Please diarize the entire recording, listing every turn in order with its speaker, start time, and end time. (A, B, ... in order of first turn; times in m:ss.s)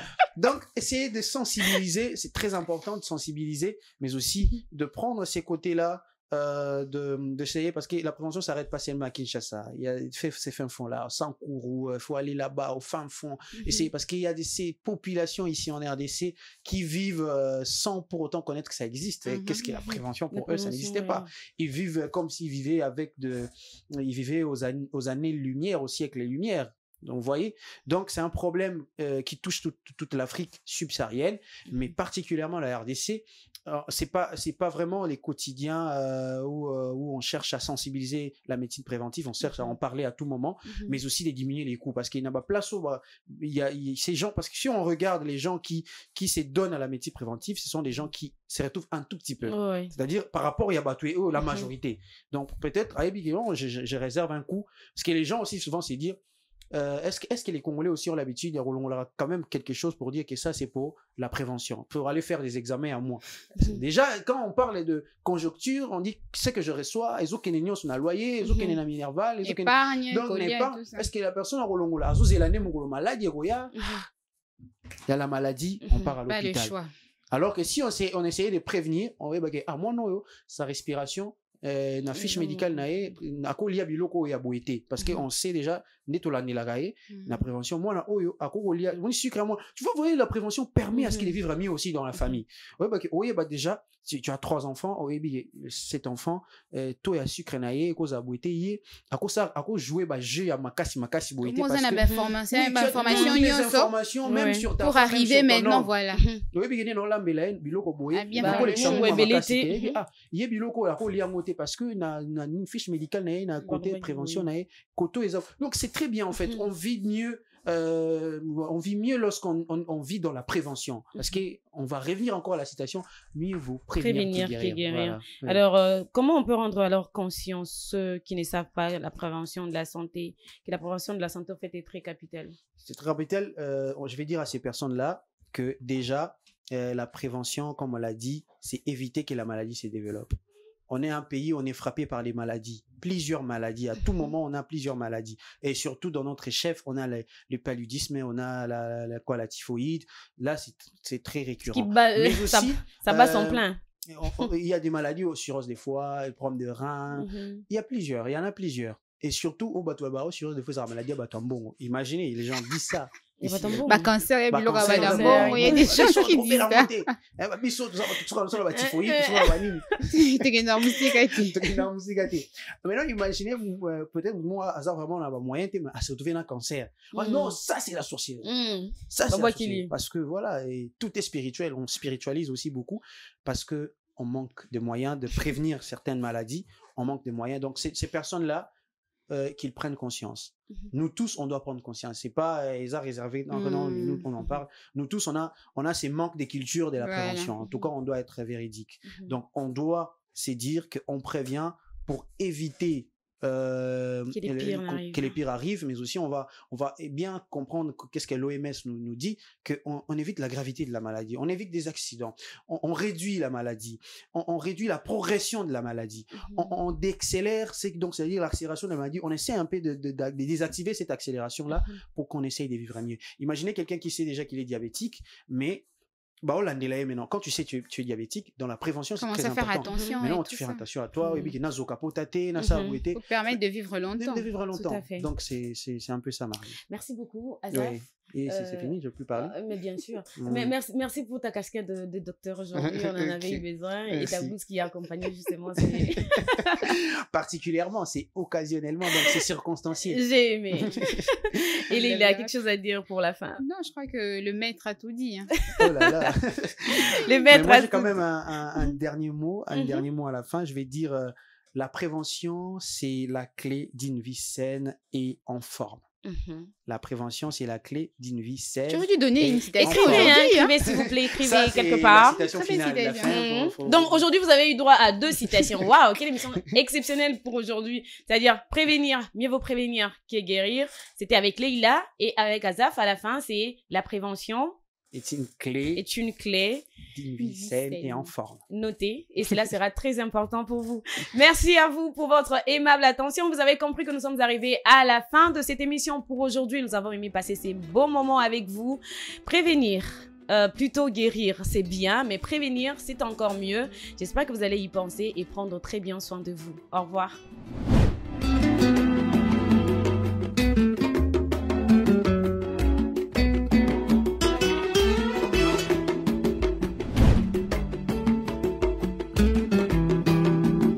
0:00.3-0:56.2 A
0:13.6-0:13.9 B
0:19.3-0:19.6 C
0:19.8-0:21.3 B
0:40.7-0:41.0 B
0:49.4-0:49.9 B
0:51.4-0:51.7 B
0:56.7-1:13.8 A
1:08.4-1:08.7 B
1:09.4-1:11.1 C
1:13.8-1:14.0 B
1:15.1-1:16.7 A
1:16.2-1:16.9 C
1:17.3-1:45.9 A
1:22.1-1:22.8 B
1:27.1-1:27.4 C
1:30.9-1:31.3 B
1:41.4-1:43.9 C
1:43.0-1:43.3 B
1:44.2-1:44.7 B
1:44.8-1:46.2 C
1:46.1-1:46.4 B
1:46.5-2:05.6 A
1:48.1-1:49.1 C
1:48.4-1:50.0 B
1:53.6-1:54.5 B
1:56.4-1:56.6 B
2:04.0-2:12.6 B
2:12.8-2:20.4 A
2:20.9-2:50.1 A
2:31.7-2:33.8 B
2:37.1-2:37.6 B
2:43.4-2:44.1 B
2:43.9-2:46.9 C
2:44.7-2:46.0 B
2:48.7-2:49.6 B
2:50.1-2:51.8 C
2:51.4-2:58.5 A
2:57.1-2:57.6 B
2:58.4-2:59.9 B
2:59.1-3:08.7 A
3:09.3-3:45.8 A
3:13.5-3:14.2 C
3:17.0-3:17.5 C
3:19.0-3:19.3 B
3:24.3-3:25.3 B
3:36.4-3:36.7 B
3:41.7-3:42.0 B
3:46.4-3:53.2 A
3:49.2-3:50.8 C
3:49.9-3:50.2 B
3:51.2-3:51.5 B
3:52.6-3:53.0 B
3:53.1-3:54.5 C
3:54.2-3:56.8 A
3:54.7-3:55.3 B
3:56.9-4:07.0 B
3:57.7-3:59.5 A
4:00.4-4:00.7 A
4:02.8-4:04.6 A
4:05.8-4:10.2 A
4:10.1-4:13.6 B
4:10.8-4:11.6 A
4:11.9-4:12.5 C
4:13.6-4:15.5 C
4:15.6-4:16.1 B
4:15.8-4:26.0 A
4:16.9-4:18.2 B
4:19.7-4:20.0 B
4:26.2-4:26.7 B
4:26.9-4:34.2 A
4:28.9-4:30.7 C
4:29.8-4:32.4 B
4:32.3-4:33.4 C
4:33.2-4:44.8 B
4:35.4-4:35.8 A
4:45.1-4:46.0 A
4:46.0-4:46.9 B
4:47.1-4:48.6 A
4:47.5-4:48.2 C
4:48.7-5:07.4 B